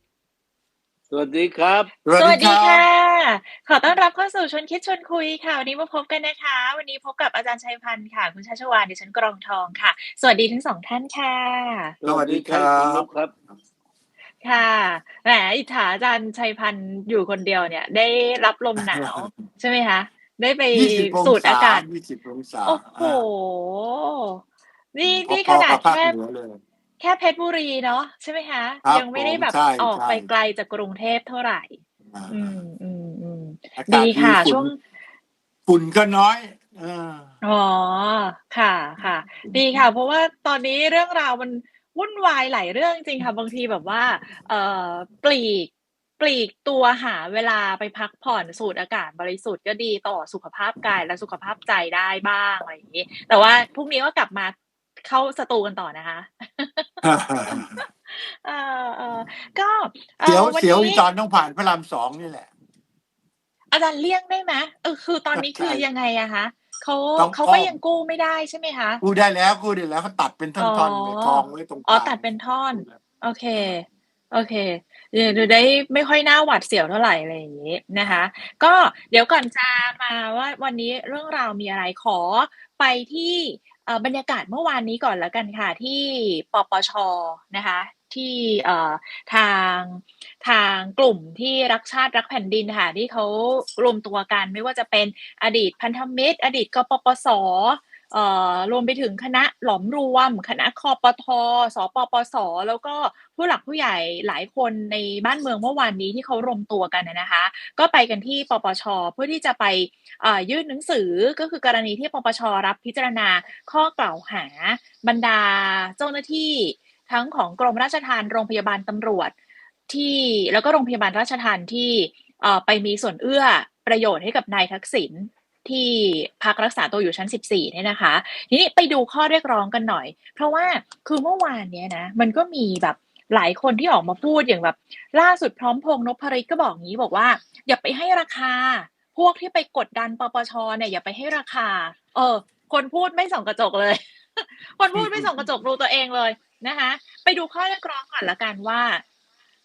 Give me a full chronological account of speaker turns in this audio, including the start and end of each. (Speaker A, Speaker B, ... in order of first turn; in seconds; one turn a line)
Speaker A: 1.1-1.9
Speaker B: 2.0-2.9
Speaker C: 2.2-12.0
Speaker A: 12.0-13.3
Speaker B: 12.1-13.1
Speaker C: 14.4-21.9
Speaker B: 18.8-19.3
Speaker B: 20.7-23.2
Speaker C: 22.6-24.4
Speaker C: 24.9-26.2
Speaker B: 25.1-26.6
Speaker C: 27.0-31.8
Speaker B: 28.9-30.3
Speaker B: 32.1-32.5
Speaker C: 32.3-34.8
Speaker B: 33.8-34.7
Speaker B: 35.7-37.3
Speaker C: 37.4-61.0
Speaker B: 39.4-39.8
Speaker B: 57.0-57.8
Speaker B: 60.2-62.5
Speaker C: 63.7-69.0
Speaker B: 65.3-65.8
Speaker B: 67.2-67.8
Speaker B: 69.0-72.2
Speaker C: 70.6-119.3
Speaker C: 119.9-149.0
Speaker B: 144.9-145.5